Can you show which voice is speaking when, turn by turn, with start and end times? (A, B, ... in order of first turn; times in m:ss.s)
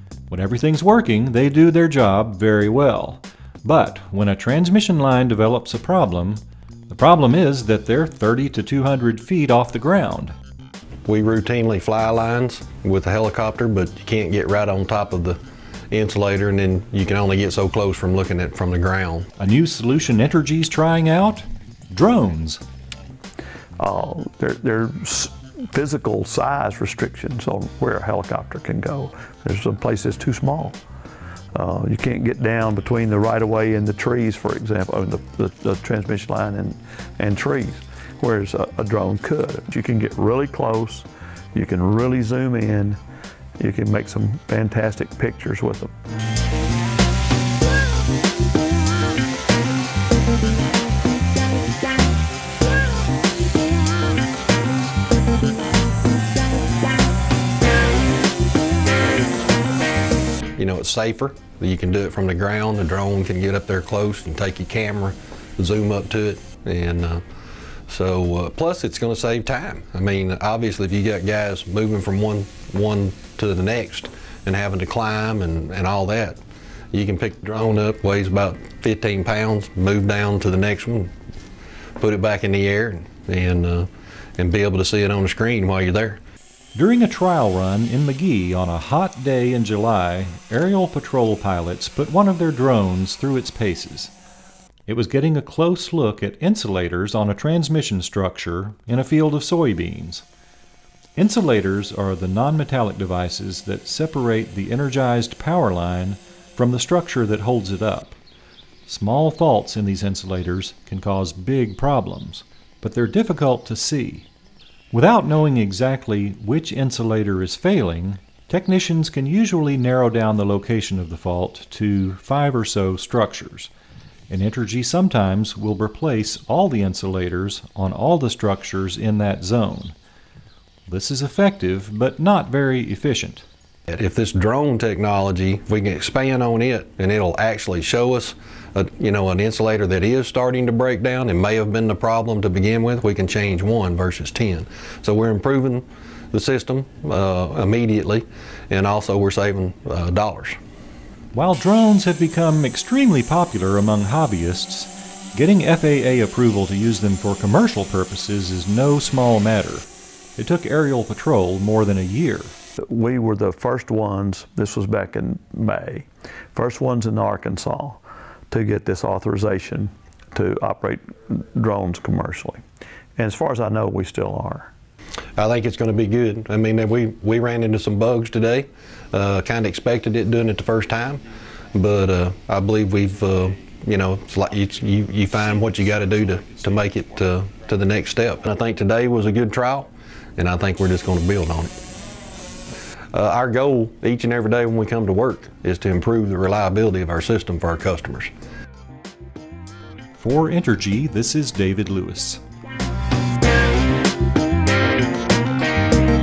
0:00.3-0:10.3 A
0:11.1-0:15.4 B
0:15.9-0:19.3 B
0:19.4-0:22.6 A
0:23.8-0:30.8 C
0:31.5-0:43.0 C
0:43.6-0:45.9 C
1:00.6-1:07.2 B
1:07.9-1:16.4 B
1:16.9-1:21.1 B
1:22.0-1:26.2 B
1:26.7-1:34.1 A
1:34.9-1:40.2 A
1:41.2-1:48.2 A
1:48.9-1:54.3 A
1:54.9-2:03.7 A
2:04.3-2:09.9 A
2:10.9-2:13.4 A
2:13.9-2:30.6 B
2:31.3-2:42.6 A
2:42.8-2:52.6 C
2:53.2-2:54.7 C
2:55.4-3:01.2 B
3:01.7-3:11.8 B
3:13.1-3:18.3 B
3:20.2-3:22.4 A